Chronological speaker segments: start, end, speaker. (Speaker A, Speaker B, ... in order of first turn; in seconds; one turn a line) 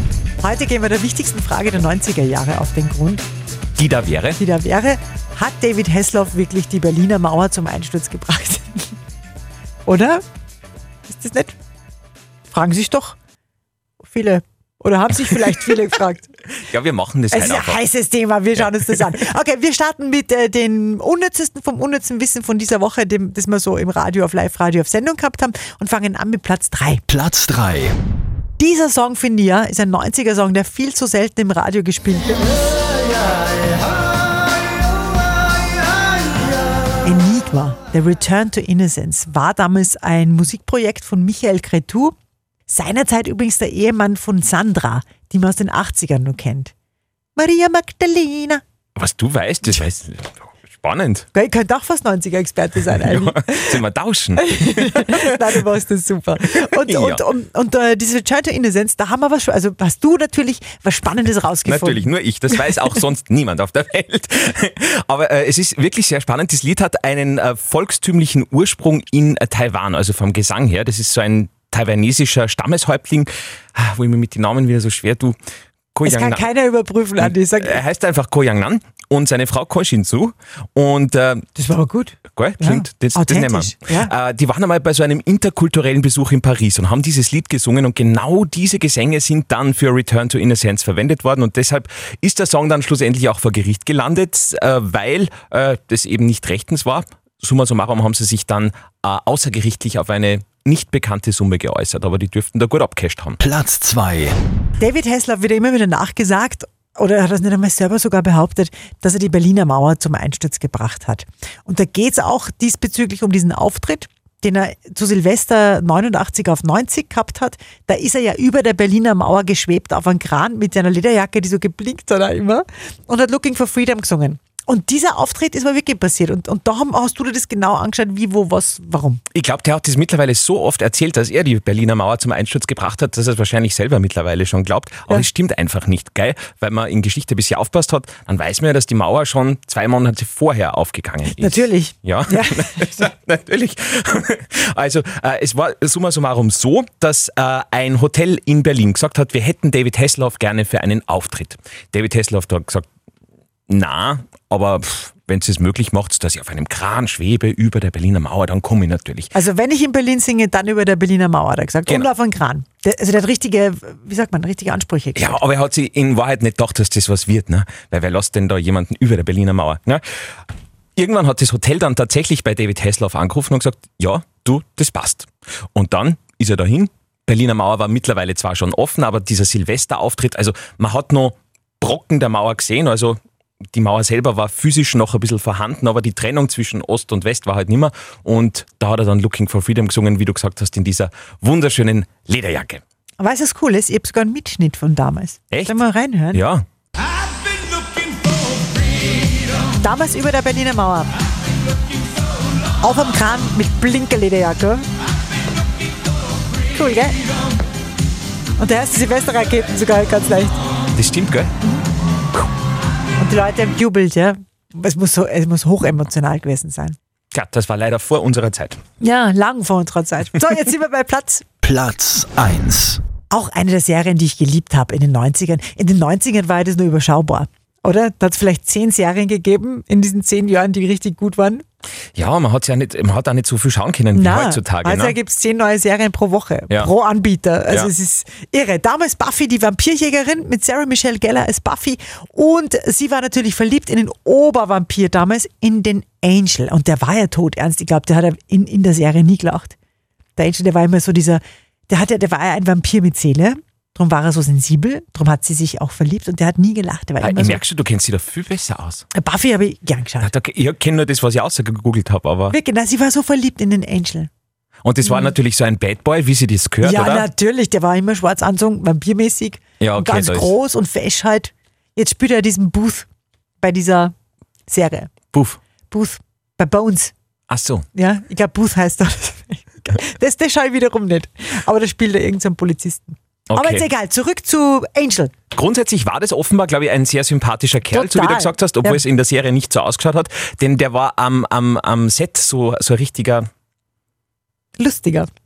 Speaker A: 0.4-3.2
Speaker B: 3.8-4.4
Speaker A: 4.4-8.9
Speaker A: 9.8-10.2
Speaker A: 11.1-11.6
Speaker A: 12.5-13.2
Speaker A: 14.0-16.3
Speaker B: 16.5-17.8
Speaker A: 17.3-27.0
Speaker B: 18.6-19.1
Speaker C: 27.1-27.9
Speaker A: 28.6-32.7
Speaker A: 37.0-42.1
Speaker A: 42.7-46.7
Speaker A: 47.4-48.6
Speaker B: 49.0-51.2
Speaker A: 51.3-53.8
Speaker B: 52.9-55.6
Speaker A: 54.4-62.1
Speaker B: 56.5-57.3
Speaker B: 61.6-75.3
Speaker B: 75.9-76.5
Speaker A: 76.0-77.8
Speaker B: 77.2-81.5
Speaker A: 81.5-84.1
Speaker B: 82.3-103.4
Speaker C: 103.4-104.3
Speaker A: 104.8-129.2
Speaker B: 129.3-152.8
Speaker A: 141.2-143.0
Speaker B: 153.7-159.3
Speaker A: 159.3-165.4
Speaker B: 165.1-170.0
Speaker B: 171.0-183.2
Speaker B: 183.7-192.8
Speaker A: 193.2-196.4
Speaker B: 195.5-195.8
Speaker B: 196.3-196.6
Speaker A: 199.8-201.1
Speaker A: 202.8-204.8
Speaker A: 206.7-207.2
Speaker A: 208.6-210.6
Speaker B: 210.9-211.5
Speaker A: 213.2-216.9
Speaker B: 217.3-218.8
Speaker A: 219.0-221.4
Speaker C: 221.6-223.0
Speaker A: 223.3-231.6
Speaker B: 232.1-235.2
Speaker A: 234.1-249.8
Speaker A: 250.3-257.6
Speaker B: 257.2-259.1
Speaker A: 259.1-260.3
Speaker B: 260.2-262.6
Speaker A: 262.5-264.3
Speaker B: 264.8-267.3
Speaker A: 265.0-265.3
Speaker A: 266.8-273.1
Speaker B: 269.8-270.5
Speaker A: 273.6-274.1
Speaker A: 274.7-275.1
Speaker B: 275.3-275.6
Speaker A: 275.9-277.1
Speaker B: 277.5-277.9
Speaker A: 277.9-285.3
Speaker B: 283.5-283.9
Speaker B: 285.5-293.4
Speaker A: 287.9-289.0
Speaker A: 294.8-295.3